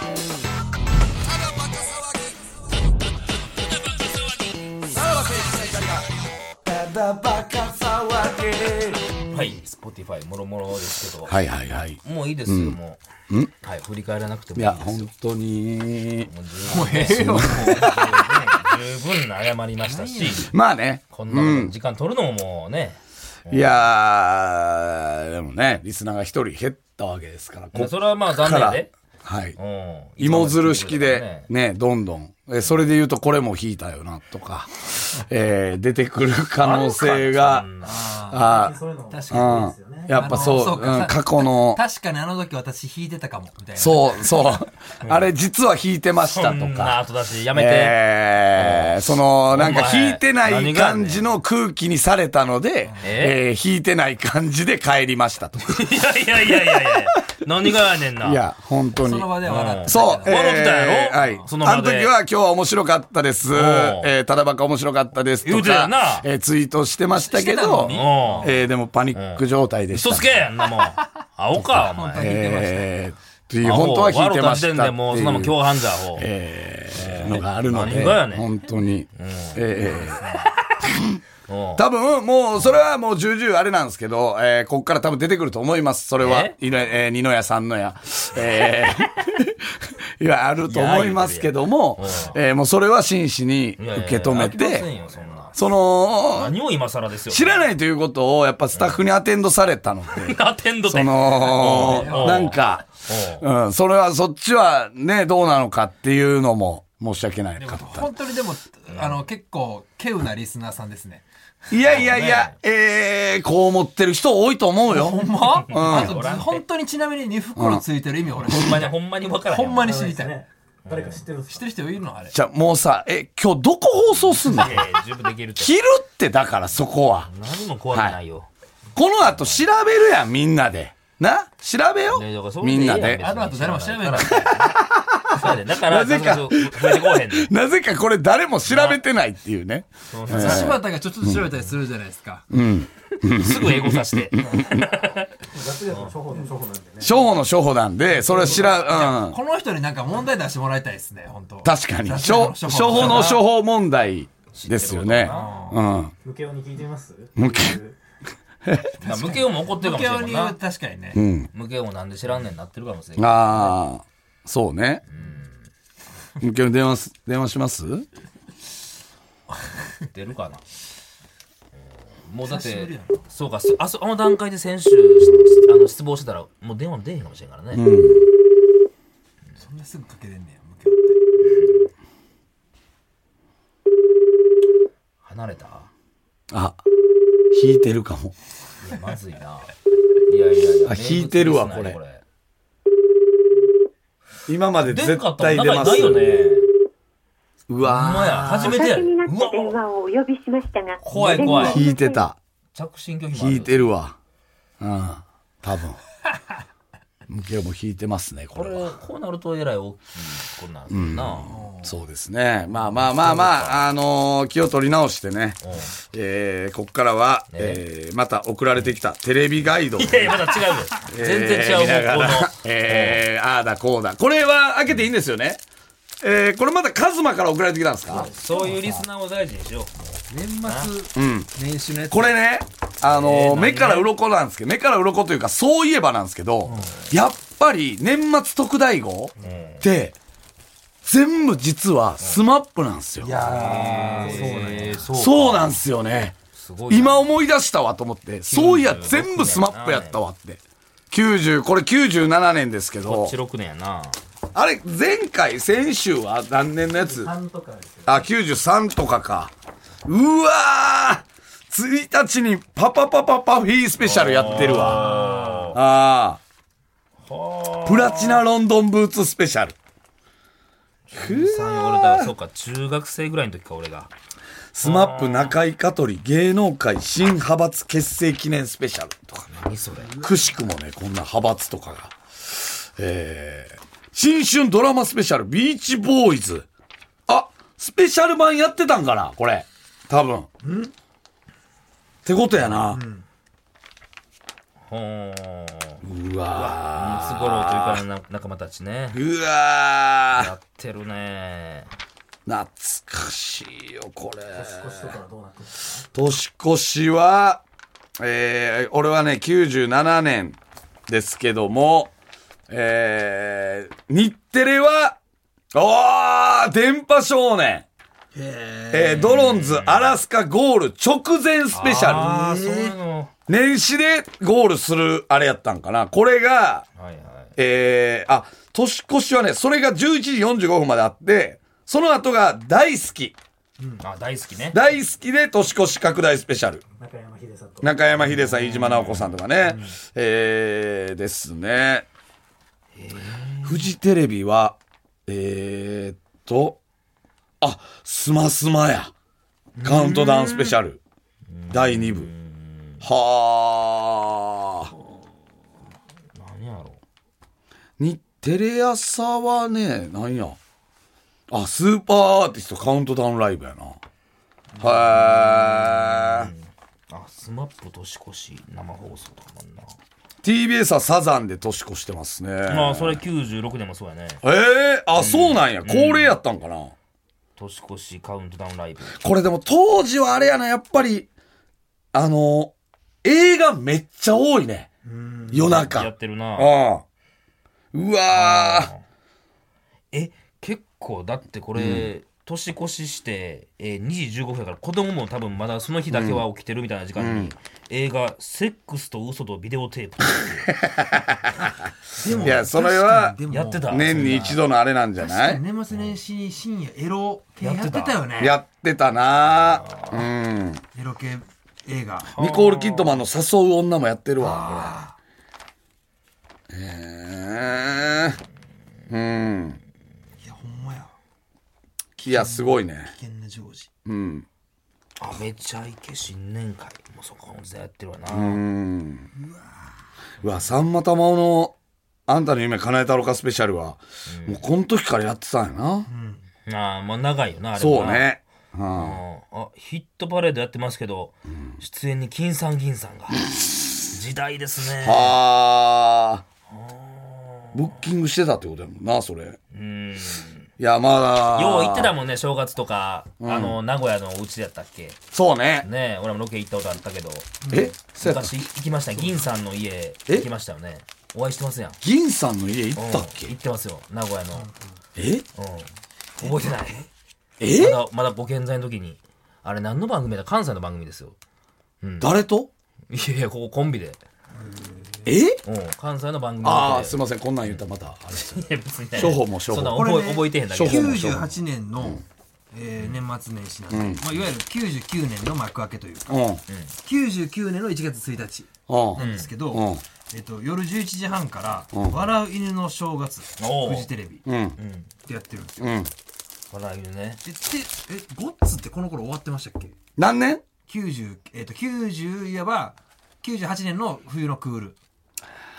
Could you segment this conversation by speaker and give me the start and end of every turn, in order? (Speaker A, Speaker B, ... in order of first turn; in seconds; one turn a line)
Speaker A: 1.6-2.1
Speaker B: 3.9-4.1
Speaker A: 4.9-6.1
Speaker A: 6.7-9.2
Speaker B: 9.3-11.4
Speaker A: 11.3-12.8
Speaker B: 12.0-13.0
Speaker B: 13.6-15.1
Speaker A: 14.6-16.3
Speaker B: 16.3-20.5
Speaker C: 16.7-18.2
Speaker A: 16.8-18.2
Speaker C: 19.8-20.5
Speaker A: 20.4-21.7
Speaker B: 21.1-23.8
Speaker A: 23.5-29.6
Speaker B: 27.7-28.9
Speaker B: 29.6-31.5
Speaker A: 30.2-37.7
Speaker B: 36.6-38.0
Speaker C: 37.8-38.5
Speaker A: 38.3-38.8
Speaker D: 38.4-40.6
Speaker C: 39.1-44.4
Speaker A: 39.3-41.8
Speaker A: 43.8-47.0
Speaker B: 46.2-48.0
Speaker A: 47.5-57.2
Speaker B: 48.5-51.3
Speaker C: 52.9-53.1
Speaker B: 53.0-53.4
Speaker B: 55.6-58.4
Speaker A: 58.2-70.4
Speaker C: 58.9-60.5
Speaker B: 59.4-62.1
Speaker B: 63.5-64.1
Speaker B: 65.4-66.3
Speaker C: 67.2-68.6
Speaker B: 67.9-68.5
Speaker B: 69.1-72.3
Speaker C: 70.6-71.0
Speaker A: 71.5-81.2
Speaker C: 71.8-72.9
Speaker B: 73.6-76.3
Speaker B: 76.9-78.5
Speaker B: 79.1-79.7
Speaker C: 79.9-80.5
Speaker B: 81.5-81.9
Speaker A: 81.8-94.9
Speaker B: 86.2-86.6
Speaker B: 90.7-92.4
Speaker B: 93.8-95.6
Speaker A: 95.5-96.5
Speaker B: 96.3-97.7
Speaker A: 97.3-108.1
Speaker B: 98.7-99.0
Speaker B: 100.1-103.5
Speaker C: 101.5-102.6
Speaker C: 107.6-112.5
Speaker B: 108.9-109.2
Speaker A: 111.7-116.2
Speaker B: 111.9-112.5
Speaker C: 114.9-118.9
Speaker B: 115.7-116.6
Speaker A: 117.6-117.8
Speaker B: 118.5-120.0
Speaker C: 119.5-120.4
Speaker D: 119.8-121.7
Speaker B: 120.8-121.2
Speaker C: 121.5-122.4
Speaker A: 122.3-124.9
Speaker B: 124.1-125.7
Speaker A: 125.6-127.3
Speaker B: 127.3-128.5
Speaker A: 127.9-128.2
Speaker A: 128.9-133.2
Speaker B: 129.2-129.6
Speaker B: 132.1-134.7
Speaker C: 133.2-134.7
Speaker A: 134.3-141.4
Speaker B: 135.3-137.5
Speaker B: 138.7-139.0
Speaker B: 140.1-140.8
Speaker C: 140.3-142.5
Speaker A: 142.5-144.8
Speaker B: 143.1-145.3
Speaker D: 145.5-147.2
Speaker A: 147.0-149.4
Speaker C: 148.2-153.4
Speaker D: 148.4-148.7
Speaker A: 151.6-156.1
Speaker B: 152.9-153.4
Speaker B: 154.5-155.6
Speaker C: 155.3-155.8
Speaker D: 156.2-158.0
Speaker A: 157.4-157.8
Speaker A: 158.7-158.9
Speaker B: 159.0-160.6
Speaker C: 159.0-161.2
Speaker A: 161.1-161.5
Speaker B: 161.5-163.8
Speaker A: 163.2-165.0
Speaker B: 165.1-165.6
Speaker A: 166.4-168.1
Speaker B: 170.1-170.6
Speaker B: 172.2-177.8
Speaker C: 172.5-173.3
Speaker A: 177.7-178.3
Speaker C: 179.6-181.2
Speaker B: 181.4-181.7
Speaker B: 185.2-185.9
Speaker A: 186.5-186.8
Speaker A: 187.5-188.3
Speaker B: 188.8-189.7
Speaker B: 190.3-192.2
Speaker A: 190.8-192.0
Speaker A: 194.5-196.3
Speaker B: 194.8-196.7
Speaker A: 197.7-198.8
Speaker B: 197.8-199.8
Speaker E: 198.6-202.2
Speaker C: 201.0-201.8
Speaker B: 201.1-201.8
Speaker A: 201.6-202.4
Speaker B: 202.7-203.9
Speaker A: 203.3-204.2
Speaker A: 204.8-206.0
Speaker A: 207.3-208.9
Speaker B: 208.6-211.5
Speaker A: 210.9-220.4
Speaker C: 211.5-212.0
Speaker B: 212.8-213.9
Speaker B: 215.6-215.9
Speaker B: 217.5-217.8
Speaker B: 220.0-223.2
Speaker A: 221.0-225.6
Speaker A: 226.2-228.3
Speaker B: 228.1-230.9
Speaker C: 228.3-228.7
Speaker C: 230.3-232.3
Speaker A: 231.2-231.5
Speaker A: 232.1-240.2
Speaker B: 233.1-234.1
Speaker B: 236.7-237.1
Speaker B: 239.4-239.9
Speaker A: 241.0-243.4
Speaker C: 243.2-245.1
Speaker B: 243.4-245.8
Speaker D: 243.6-245.0
Speaker A: 245.1-246.4
Speaker B: 246.5-247.3
Speaker A: 246.9-253.4
Speaker B: 248.5-250.2
Speaker B: 253.0-254.2
Speaker A: 254.5-257.3
Speaker D: 256.9-258.2
Speaker A: 258.1-259.5
Speaker A: 260.1-265.1
Speaker B: 264.0-265.8
Speaker C: 264.5-265.7
Speaker A: 265.7-266.4
Speaker B: 267.2-268.4
Speaker A: 267.9-269.8
Speaker B: 271.1-274.1
Speaker A: 271.1-272.3
Speaker A: 274.7-279.5
Speaker B: 274.8-275.6
Speaker B: 279.5-280.2
Speaker A: 280.2-286.7
Speaker A: 287.3-290.5
Speaker C: 290.6-290.9
Speaker A: 292.2-293.0
Speaker C: 292.9-293.2
Speaker B: 294.9-296.0
Speaker A: 296.0-298.0
Speaker B: 296.5-299.2
Speaker A: 299.1-300.5
Speaker B: 300.3-301.9
Speaker A: 302.5-305.2
Speaker D: 304.5-306.1
Speaker A: 306.1-307.6
Speaker A: 308.2-310.6
Speaker A: 311.1-312.1
Speaker A: 312.7-315.2
Speaker A: 315.7-317.9
Speaker C: 318.4-319.3
Speaker A: 318.9-322.3
Speaker B: 319.1-320.2
Speaker B: 321.7-323.3
Speaker C: 322.0-322.9
Speaker A: 323.5-326.9
Speaker B: 327.0-327.6
Speaker A: 327.6-333.4
Speaker B: 334.0-334.8
Speaker A: 334.7-336.8
Speaker D: 337.0-337.9
Speaker A: 337.8-342.1
Speaker B: 338.3-339.4
Speaker C: 339.6-339.9
Speaker B: 342.9-343.9
Speaker A: 343.6-346.8
Speaker A: 347.6-349.1
Speaker B: 349.8-350.8
Speaker A: 349.8-351.0
Speaker B: 351.5-353.0
Speaker A: 351.7-352.3
Speaker A: 353.0-354.9
Speaker B: 356.4-357.0
Speaker A: 358.0-360.6
Speaker A: 361.5-364.0
Speaker A: 364.8-366.5
Speaker B: 365.1-369.9
Speaker A: 370.4-373.2
Speaker B: 372.7-374.4
Speaker A: 374.4-376.9
Speaker B: 375.2-376.4
Speaker B: 377.6-379.2
Speaker A: 379.1-381.3
Speaker A: 382.1-384.9
Speaker C: 385.1-385.7
Speaker A: 385.5-387.0
Speaker B: 385.7-386.7
Speaker A: 387.9-388.9
Speaker B: 388.3-389.0
Speaker B: 390.1-400.7
Speaker A: 391.8-392.1
Speaker A: 396.1-396.4
Speaker A: 397.2-397.6
Speaker A: 400.4-401.7
Speaker C: 402.2-404.4
Speaker B: 402.3-402.6
Speaker A: 402.4-405.6
Speaker B: 403.5-404.6
Speaker C: 405.2-408.6
Speaker B: 407.6-408.2
Speaker A: 408.4-410.8
Speaker B: 409.5-410.2
Speaker C: 410.9-412.3
Speaker B: 412.4-413.2
Speaker A: 412.4-415.0
Speaker C: 414.4-415.1
Speaker A: 416.7-418.4
Speaker A: 419.1-419.8
Speaker C: 420.4-421.1
Speaker A: 422.2-423.1
Speaker C: 422.2-423.9
Speaker A: 424.1-424.5
Speaker B: 425.2-428.6
Speaker A: 428.3-429.3
Speaker C: 429.4-429.8
Speaker A: 430.4-431.8
Speaker A: 432.3-436.1
Speaker B: 434.3-434.6
Speaker C: 436.1-436.4
Speaker B: 436.7-438.3
Speaker A: 437.8-439.2
Speaker B: 438.9-443.4
Speaker A: 443.6-443.9
Speaker B: 444.1-445.4
Speaker A: 445.0-446.4
Speaker B: 446.7-447.9
Speaker A: 447.7-449.6
Speaker B: 449.7-450.7
Speaker A: 450.8-452.1
Speaker B: 451.5-455.2
Speaker A: 453.4-453.8
Speaker A: 455.3-455.9
Speaker B: 455.8-462.0
Speaker C: 457.6-457.9
Speaker A: 457.7-458.6
Speaker A: 462.0-463.5
Speaker B: 463.0-464.7
Speaker A: 465.2-465.4
Speaker B: 465.6-467.1
Speaker C: 466.4-466.8
Speaker A: 467.6-468.0
Speaker B: 467.7-471.4
Speaker B: 472.0-472.3
Speaker A: 472.2-472.7
Speaker B: 473.1-474.2
Speaker C: 474.6-475.3
Speaker A: 475.3-475.6
Speaker B: 475.6-477.8
Speaker A: 476.6-480.1
Speaker B: 478.4-481.3
Speaker C: 479.9-486.4
Speaker A: 480.7-481.5
Speaker A: 483.9-484.2
Speaker A: 486.3-486.6
Speaker C: 487.0-494.4
Speaker A: 488.9-490.0
Speaker B: 489.2-489.5
Speaker A: 491.9-492.2
Speaker B: 493.6-494.1
Speaker A: 494.5-494.8
Speaker B: 494.8-495.1
Speaker C: 495.3-496.0
Speaker A: 495.8-496.1
Speaker B: 496.7-497.4
Speaker C: 497.4-500.0
Speaker A: 500.2-500.6
Speaker C: 500.9-505.0